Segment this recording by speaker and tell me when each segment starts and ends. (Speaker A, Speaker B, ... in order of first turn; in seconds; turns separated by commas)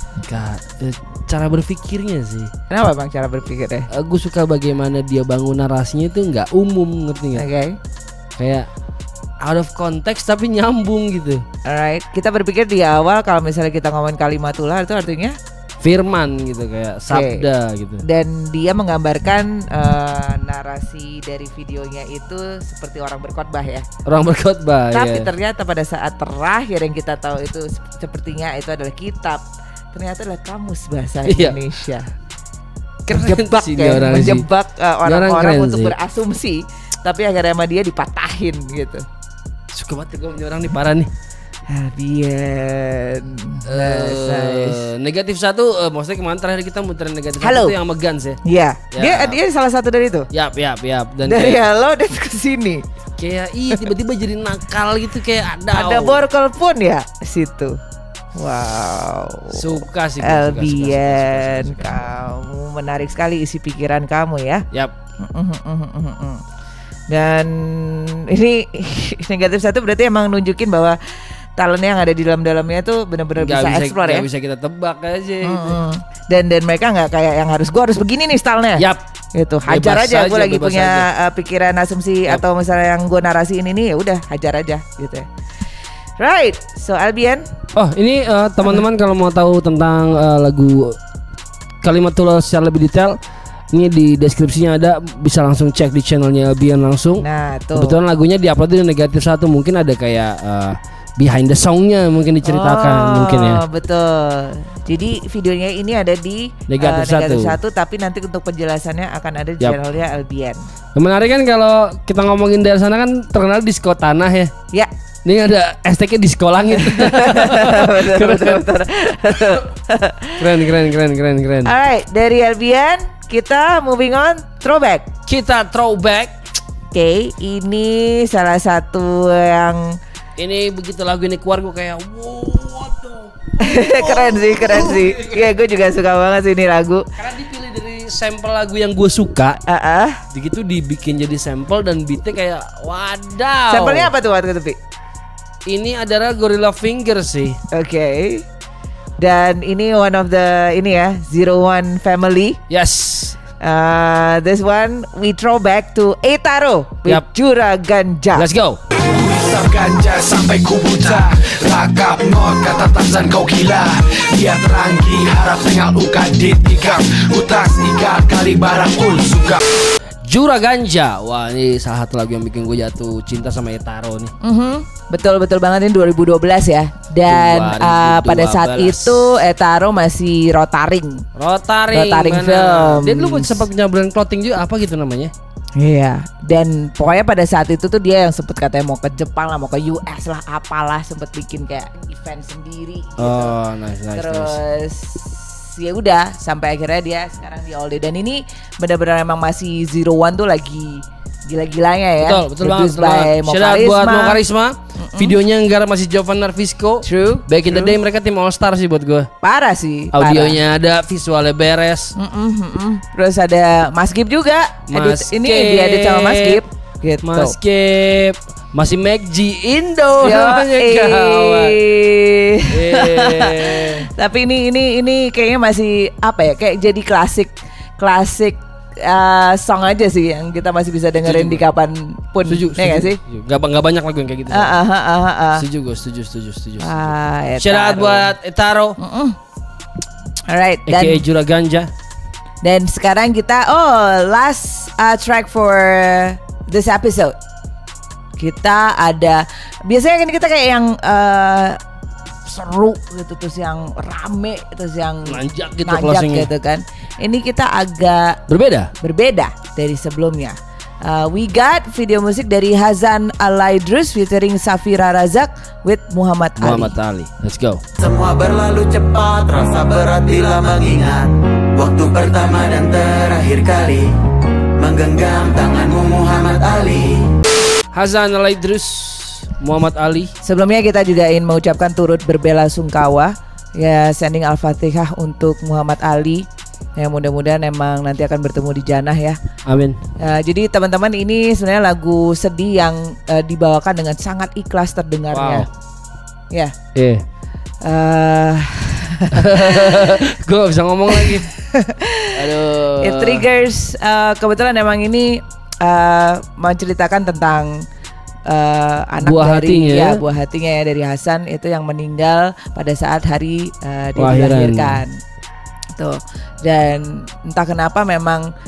Speaker A: 0.2-2.5, Speaker B: 2.7-3.9, Speaker A: 3.9-7.5, Speaker B: 7.3-7.8, Speaker A: 8.4-8.7, Speaker A: 9.4-11.4, Speaker B: 11.7-15.3, Speaker A: 15.8-18.0, Speaker B: 17.1-17.4, Speaker B: 18.0-23.9, Speaker A: 24.1-25.3, Speaker B: 24.9-32.1, Speaker A: 31.2-31.6, Speaker A: 33.1-34.5, Speaker B: 33.1-39.0, Speaker A: 35.0-36.0, Speaker A: 39.7-41.1, Speaker B: 41.7-44.9, Speaker A: 43.6-48.4, Speaker B: 47.4-47.8, Speaker B: 48.4-50.3, Speaker A: 48.9-49.4, Speaker A: 50.3-51.7, Speaker B: 51.3-52.8, Speaker A: 53.2-56.2, Speaker B: 55.7-57.8, Speaker B: 58.4-64.7, Speaker A: 59.5-62.1, Speaker B: 65.2-66.4, Speaker B: 67.1-71.0, Speaker B: 71.6-74.2, Speaker A: 73.4-75.8, Speaker B: 75.4-78.8, Speaker A: 78.8-79.0, Speaker B: 79.3-85.2, Speaker A: 79.7-81.1, Speaker B: 86.2-87.5, Speaker A: 87.8-91.0, Speaker A: 91.8-93.2, Speaker A: 93.7-97.2, Speaker B: 97.2-98.0, Speaker A: 97.8-103.6, Speaker B: 102.4-110.6, Speaker A: 106.7-107.5, Speaker A: 110.9-114.5, Speaker A: 115.2-118.7, Speaker B: 116.7-120.5, Speaker A: 120.4-121.7, Speaker B: 121.6-125.0, Speaker A: 125.3-126.3, Speaker B: 126.9-129.9, Speaker A: 130.4-135.5, Speaker B: 133.6-137.0, Speaker A: 137.2-139.6, Speaker B: 139.7-140.2, Speaker A: 140.3-144.1, Speaker B: 143.7-144.8, Speaker A: 145.7-147.6, Speaker B: 147.7-148.4, Speaker B: 149.2-152.6, Speaker A: 152.7-153.4, Speaker B: 153.6-158.5, Speaker A: 158.3-158.8, Speaker C: 159.0-169.6, Speaker A: 170.2-174.3, Speaker B: 174.4-181.2, Speaker A: 177.3-179.3, Speaker A: 181.3-185.3, Speaker B: 181.9-183.6, Speaker B: 185.8-193.5, Speaker A: 193.2-194.6, Speaker B: 194.1-204.4, Speaker A: 202.2-209.3, Speaker B: 205.0-205.3, Speaker B: 207.0-208.0, Speaker B: 209.4-210.6, Speaker A: 210.1-212.1, Speaker B: 212.2-217.5, Speaker A: 214.9-216.6, Speaker A: 217.2-221.8, Speaker B: 220.2-233.2, Speaker A: 222.7-224.1, Speaker A: 231.2-231.6, Speaker A: 232.4-234.8, Speaker B: 234.5-235.6, Speaker A: 235.5-239.0, Speaker B: 236.8-238.3, Speaker B: 239.0-239.4, Speaker B: 240.5-241.2, Speaker A: 240.8-241.9, Speaker B: 242.6-247.3, Speaker B: 248.4-251.8, Speaker B: 252.5-258.4, Speaker A: 255.2-256.5, Speaker A: 258.5-258.9, Speaker B: 259.0-267.0, Speaker A: 266.6-267.8, Speaker D: 268.0-274.1, Speaker D: 274.8-277.2, Speaker A: 277.9-280.3, Speaker B: 280.4-286.4, Speaker B: 287.0-289.4, Speaker A: 289.6-290.0, Speaker B: 290.2-295.7, Speaker A: 295.3-295.7, Speaker A: 296.9-297.2, Speaker B: 297.8-300.2, Speaker A: 299.3-301.5, Speaker B: 301.1-302.4, Speaker A: 302.3-303.5, Speaker B: 303.0-307.8, Speaker B: 308.5-315.1, Speaker A: 309.2-310.2, Speaker A: 314.2-315.0, Speaker B: 316.0-318.4